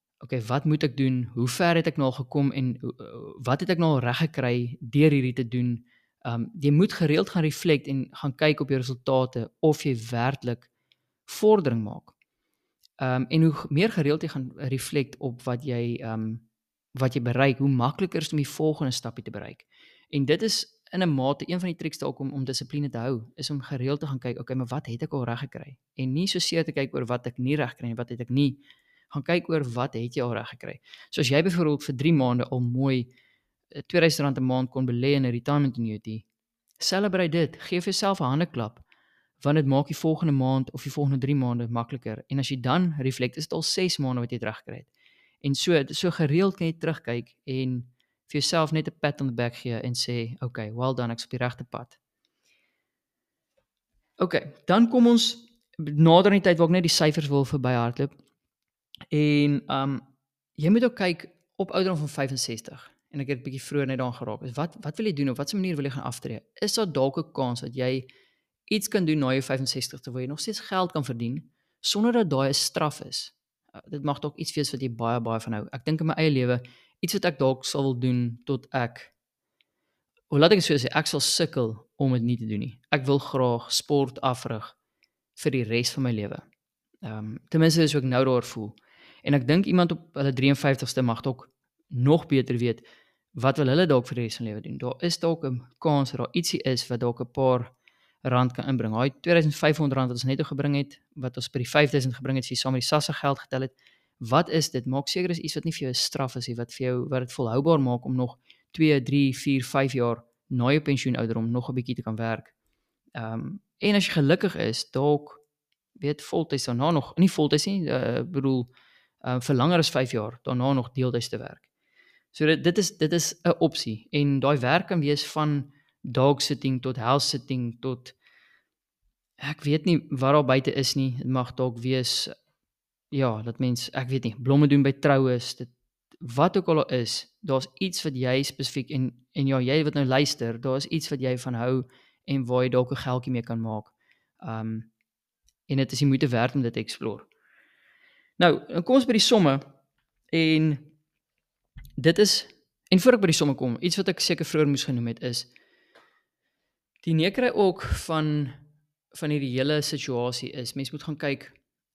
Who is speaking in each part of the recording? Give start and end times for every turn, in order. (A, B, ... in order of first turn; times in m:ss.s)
0:00.2-0:10.7 A
0:11.3-0:12.1 A
0:13.0-0:16.4 A
0:17.0-0:28.6 A
0:29.1-0:33.1 A
0:33.8-0:36.2 A
0:36.8-0:38.8 A
0:39.4-0:44.9 A
0:45.4-0:52.0 A
0:54.2-0:58.2 A
0:59.1-1:00.0 A
1:00.6-1:08.1 A
1:08.7-1:19.1 A
1:20.3-1:24.8 A
1:25.4-1:26.4 A
1:27.0-1:52.5 A
1:53.2-1:55.4 A
1:56.0-1:58.7 A
1:59.2-2:01.6 A
2:02.3-2:08.1 A
2:09.4-2:12.3 A
2:13.1-2:24.9 A
2:25.7-2:27.3 A
2:28.4-2:29.7 A
2:30.3-2:30.9 A
2:32.0-2:35.5 A
2:37.0-2:38.6 A
2:39.1-2:41.6 A